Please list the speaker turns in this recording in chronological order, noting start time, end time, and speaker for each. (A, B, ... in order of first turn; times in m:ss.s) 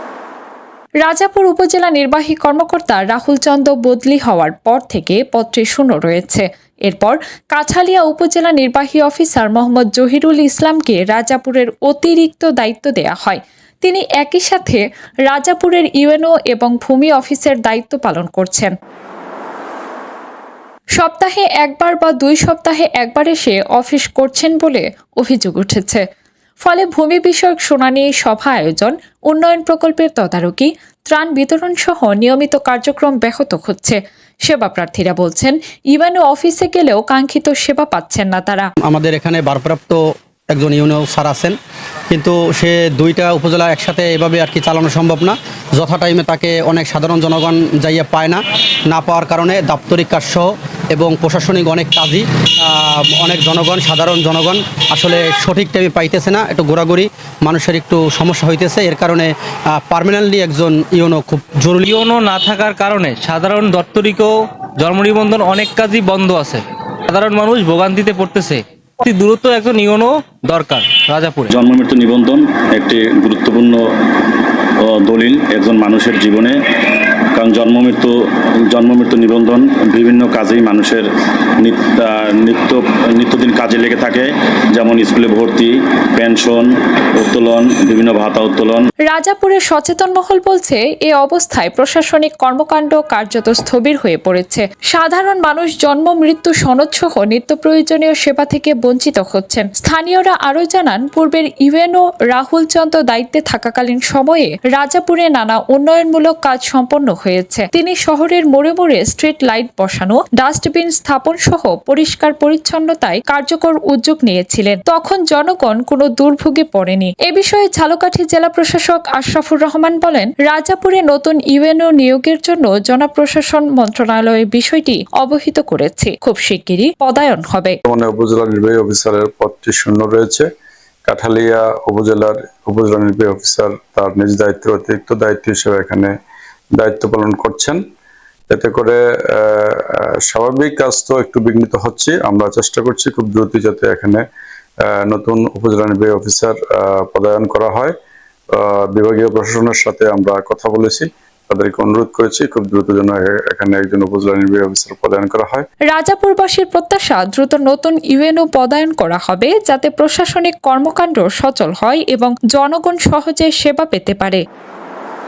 0:01.0-0:18.7 A
0:21.0-0:26.0 A
0:26.6-0:38.7 A
0:38.8-0:41.6 B
0:42.1-1:01.9 B
1:01.8-1:11.5 C
1:11.5-1:13.8 D
1:14.8-1:16.6 D
1:17.4-1:18.2 D
1:18.7-1:21.1 D
1:21.6-1:28.9 D
1:29.1-2:07.8 A
2:07.9-2:10.5 E
2:11.0-2:16.1 E
2:16.7-2:17.8 E
2:18.5-2:24.2 E
2:24.8-2:28.0 E
2:28.5-2:35.7 E
2:35.9-2:44.4 A